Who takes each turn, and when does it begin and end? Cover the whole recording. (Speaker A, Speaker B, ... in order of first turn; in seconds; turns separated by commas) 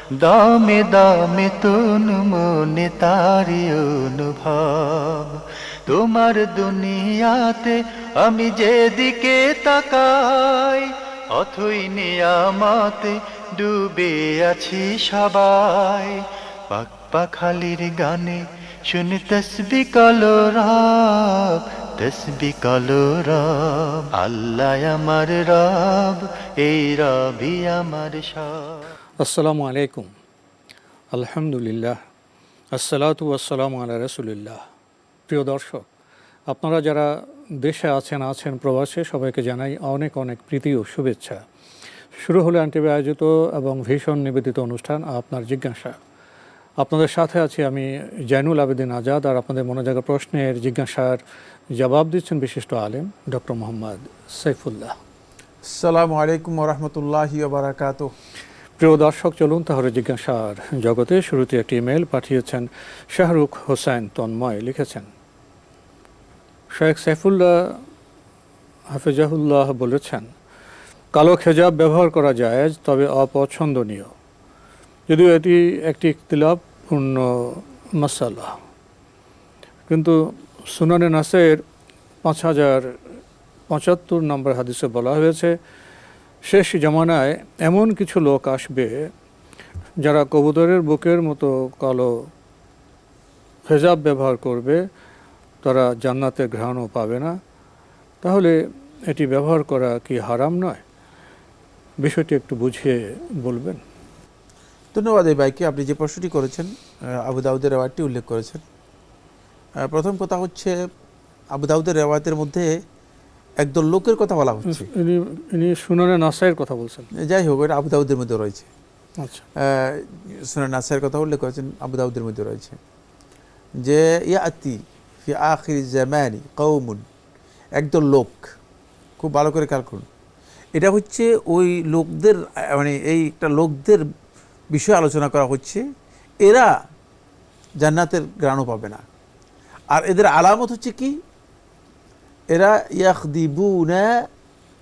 Speaker A: 0.2-5.3, Speaker A: 5.9-28.7, Speaker B: 29.2-30.1, Speaker B: 31.1-32.0, Speaker B: 32.7-34.6, Speaker B: 35.3-35.8, Speaker B: 36.5-37.1, Speaker B: 37.6-41.4, Speaker B: 42.2-46.0, Speaker B: 46.8-51.2, Speaker B: 51.8-54.9, Speaker C: 55.6-58.1, Speaker B: 58.8-65.1, Speaker B: 66.8-67.6, Speaker B: 68.9-70.2, Speaker B: 71.1-74.1, Speaker B: 75.1-78.5, Speaker B: 79.9-80.2, Speaker B: 80.7-81.6, Speaker B: 82.2-82.8, Speaker B: 83.7-85.5, Speaker B: 86.5-88.9, Speaker B: 90.0-92.1, Speaker B: 93.7-94.8, Speaker B: 95.6-97.3, Speaker B: 98.2-98.5, Speaker B: 99.1-100.8, Speaker B: 102.0-103.8, Speaker C: 104.9-106.7, Speaker C: 107.2-108.6, Speaker C: 109.8-110.8, Speaker C: 111.5-112.7, Speaker C: 113.6-114.9, Speaker B: 114.7-117.1, Speaker C: 117.2-118.7, Speaker B: 119.2-119.4, Speaker C: 119.6-122.8, Speaker C: 123.8-127.0, Speaker C: 127.8-128.5, Speaker C: 129.2-130.1, Speaker C: 130.8-134.0, Speaker C: 134.7-135.8, Speaker C: 136.4-136.7, Speaker C: 137.8-139.0, Speaker C: 139.9-141.1, Speaker C: 142.5-144.1